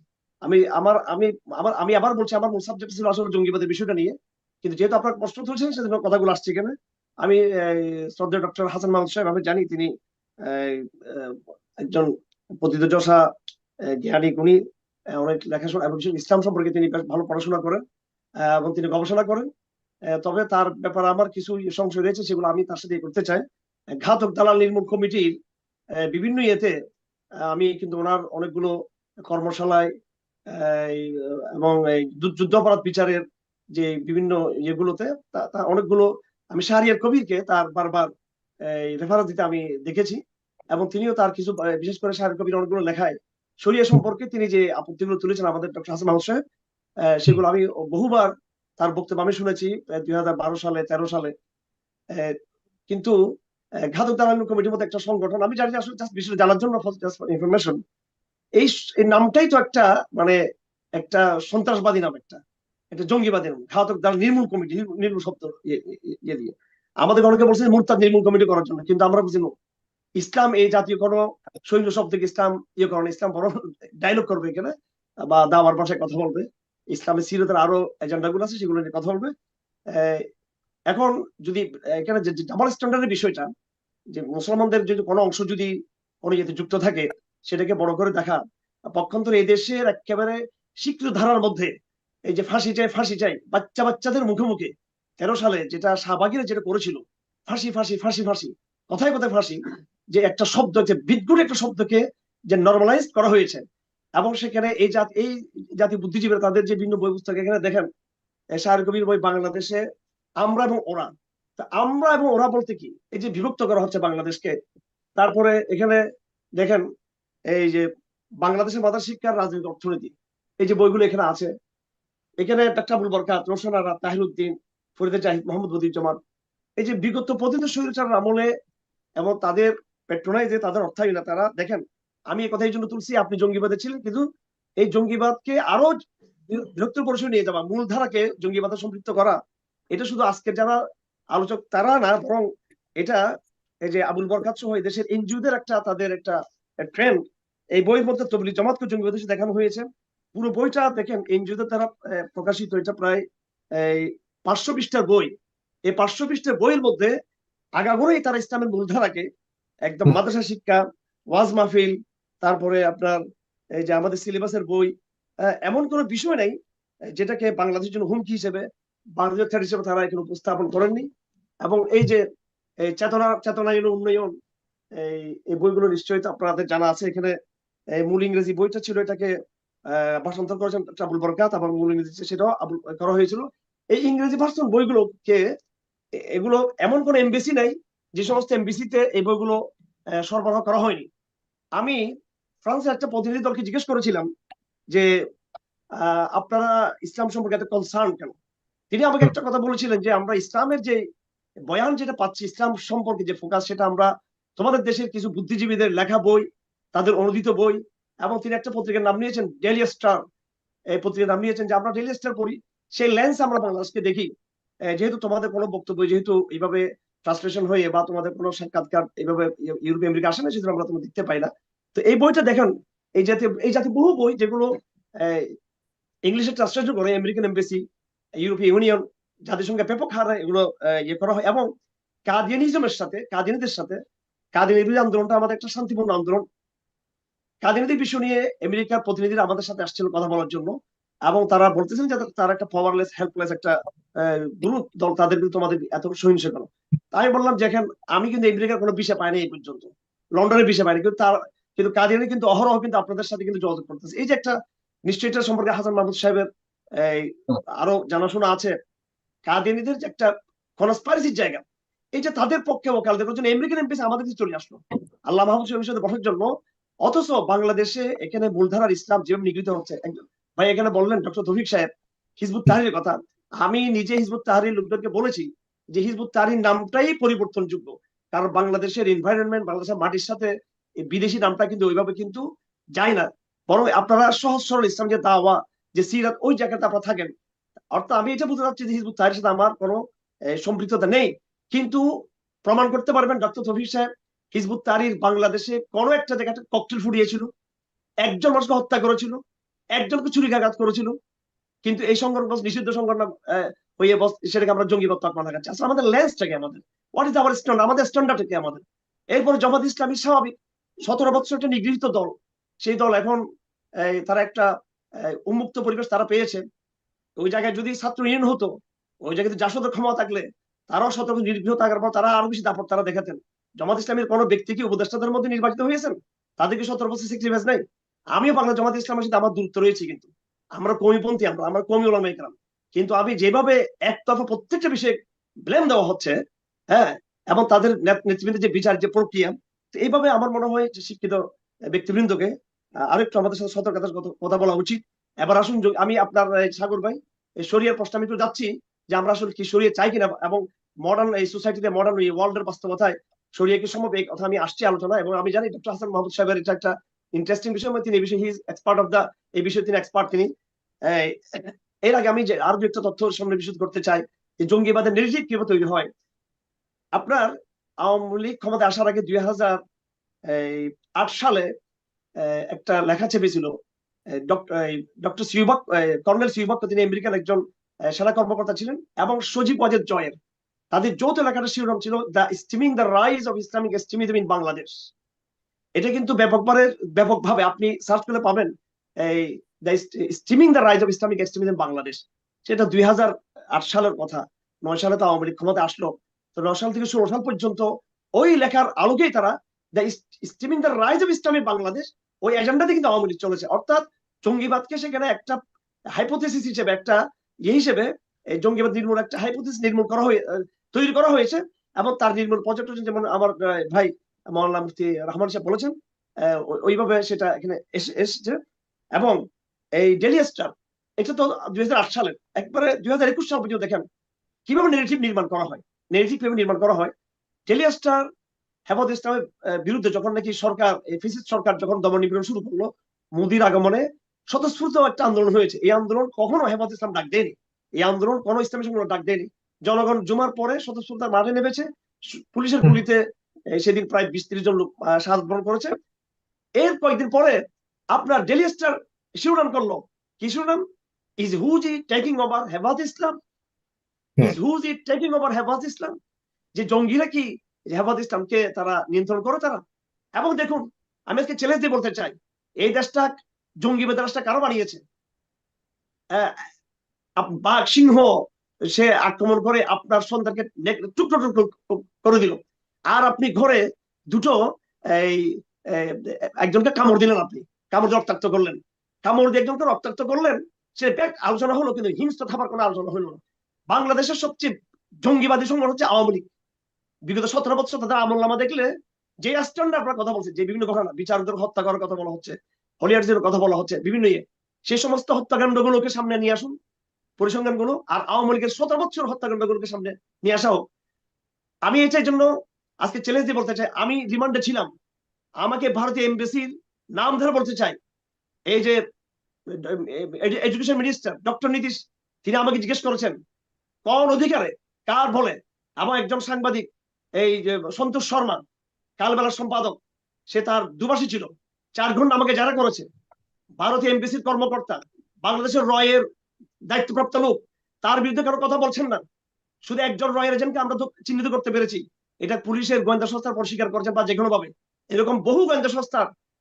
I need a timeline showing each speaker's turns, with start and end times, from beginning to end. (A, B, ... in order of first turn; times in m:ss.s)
0:00.4-0:09.9 A
0:10.5-0:12.1 A
0:12.6-0:13.2 A
0:14.0-0:14.6 A
0:15.2-0:17.8 A
0:18.5-0:19.5 A
0:20.2-0:23.4 A
0:24.0-0:25.3 A
0:26.1-0:26.7 A
0:27.5-0:28.7 A
0:29.3-0:29.9 A
0:30.6-0:33.2 A
0:33.8-0:38.1 A
0:38.7-0:40.2 A
0:40.7-0:46.4 A
0:47.1-0:51.3 A
0:52.9-0:53.2 A
0:53.9-0:57.8 A
0:58.6-1:00.4 A
1:01.0-1:02.4 A
1:02.9-1:09.5 A
1:10.2-1:14.7 A
1:15.2-1:19.3 A
1:19.9-1:20.2 A
1:20.9-1:23.5 A
1:24.2-1:25.7 A
1:26.2-1:28.4 A
1:29.0-1:31.7 A
1:32.3-1:39.6 A
1:40.2-1:43.6 A
1:44.2-1:47.9 A
1:48.6-1:49.8 A
1:50.4-1:54.5 A
1:55.2-1:56.0 A
1:56.6-1:56.8 A
1:57.5-1:57.9 A
1:58.4-2:01.5 A
2:02.4-2:06.2 A
2:06.8-2:08.5 A
2:09.2-2:14.2 A
2:14.8-2:15.9 A
2:16.5-2:19.4 A
2:19.9-2:20.8 A
2:21.3-2:22.4 A
2:23.8-2:27.2 A
2:27.8-2:33.2 A
2:33.8-2:35.3 A
2:35.9-2:37.1 A
2:37.8-2:39.2 A
2:39.9-2:40.8 A
2:41.3-2:43.2 A
2:43.8-2:44.9 A
2:45.6-2:46.5 A
2:47.1-2:48.6 A
2:49.2-2:51.1 A
2:51.6-2:52.2 A
2:52.8-2:54.3 A
2:55.0-2:57.3 A
2:58.0-2:59.3 A
2:59.9-3:05.4 A
3:06.3-3:09.6 A
3:10.2-3:11.0 A
3:12.6-3:14.3 A
3:16.0-3:18.3 A
3:18.9-3:21.0 A
3:21.7-3:30.2 A
3:31.0-3:34.3 A
3:34.9-3:44.7 A
3:45.2-3:45.5 A
3:46.3-3:47.8 A
3:48.4-3:51.7 A
3:52.3-3:54.0 A
3:54.6-3:56.4 A
3:57.6-4:00.7 A
4:01.3-4:14.5 A
4:15.1-4:16.5 A
4:17.0-4:18.7 A
4:19.5-4:21.6 A
4:22.2-4:26.5 A
4:27.0-4:31.9 A
4:32.4-4:40.5 A
4:41.0-4:42.4 A
4:43.0-4:47.3 A
4:47.9-4:50.0 A
4:50.6-4:52.0 A
4:52.6-4:57.5 A
4:58.2-4:59.4 A
5:00.0-5:01.1 A
5:01.8-5:08.8 A
5:09.3-5:10.5 A
5:11.1-5:12.3 A
5:12.8-5:13.4 A
5:14.1-5:14.7 A
5:15.5-5:16.6 A
5:17.4-5:18.7 A
5:19.2-5:27.8 A
5:28.4-5:35.1 A
5:35.7-5:36.3 A
5:36.9-5:41.4 A
5:41.9-5:42.5 A
5:43.1-6:00.5 A
6:01.1-6:06.1 A
6:07.2-6:07.5 A
6:08.0-6:09.8 A
6:10.5-6:11.7 A
6:12.5-6:13.7 A
6:14.4-6:17.6 A
6:18.1-6:20.3 A
6:20.9-6:24.9 A
6:26.0-6:28.7 A
6:29.2-6:37.8 A
6:38.4-6:45.6 A
6:46.2-6:48.1 A
6:48.6-6:55.9 A
6:56.5-6:58.6 A
7:00.0-7:04.0 A
7:04.7-7:07.1 A
7:07.7-7:08.2 A
7:08.9-7:21.9 A
7:22.5-7:23.2 A
7:23.8-7:25.9 A
7:26.8-7:27.6 A
7:28.1-7:30.8 A
7:31.4-7:33.4 A
7:34.4-7:36.1 A
7:36.8-7:39.8 A
7:40.4-7:43.3 A
7:43.8-7:45.0 A
7:47.4-7:48.3 A
7:48.9-7:52.6 A
7:53.1-7:54.6 A
7:55.1-8:03.4 A
8:03.9-8:04.7 A
8:05.2-8:06.4 A
8:07.3-8:08.9 A
8:09.4-8:16.7 A
8:17.4-8:20.8 A
8:21.9-8:22.5 A
8:23.0-8:24.9 A
8:25.6-8:28.0 A
8:28.7-8:29.0 A
8:29.8-8:33.3 A
8:34.0-8:36.8 A
8:37.4-8:38.6 A
8:39.2-8:40.0 A
8:40.5-8:43.0 A
8:43.8-8:46.2 A
8:46.9-8:49.2 A
8:49.8-8:56.3 A